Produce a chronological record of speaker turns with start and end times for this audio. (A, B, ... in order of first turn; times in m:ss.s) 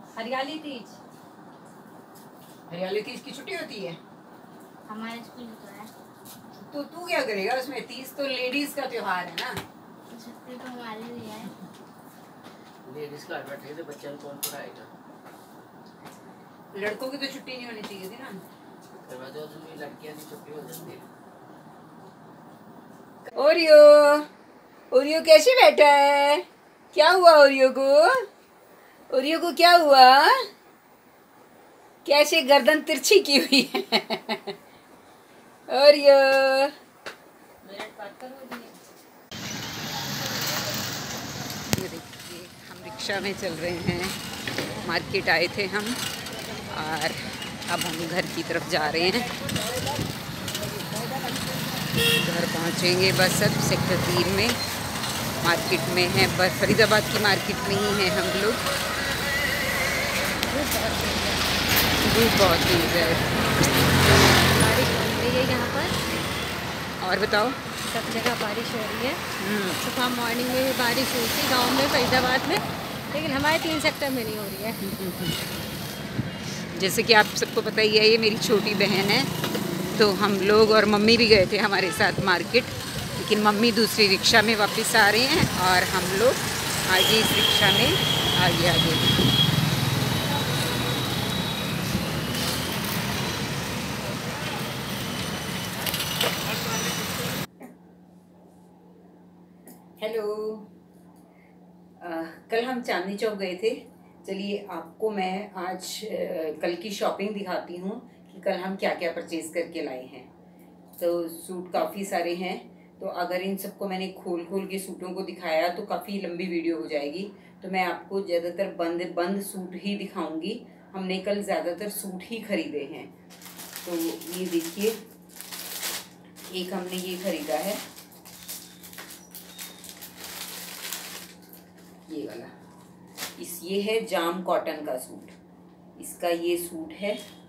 0:00.1-0:01.0 A
0:02.7-0:04.0 B
0:04.9-0:05.9 C
0:06.6-0:09.6 B
0:10.1-0:11.5 C
0:12.8-0:14.9 D
0:16.7-0:18.4 B
0:19.0-0:21.0 D
0:23.3-0:24.3 B
0:24.9-0:28.2 B
0:29.1-0:30.5 B
0:32.0-0:34.5 B
0:35.7-0:36.7 B
0:37.6-0:38.8 A
0:41.6-0:44.2 B
0:44.8-0:46.0 B
0:46.6-0:49.3 B
0:52.0-0:54.6 B
0:55.4-0:58.6 B
1:00.5-1:01.4 A
1:02.0-1:03.3 B
1:04.1-1:05.9 A
1:07.0-1:07.6 B
1:07.9-1:09.2 A
1:09.4-1:09.8 B
1:09.8-1:14.8 A
1:14.8-1:15.4 B
1:16.7-1:19.3 B
1:20.0-1:29.2 B
1:40.0-1:40.7 B
1:42.0-1:50.3 B
1:51.0-2:03.1 B
2:03.8-2:05.0 B
2:06.5-2:07.8 B
2:12.1-2:12.5 B
2:13.4-2:15.3 B
2:16.0-2:17.2 B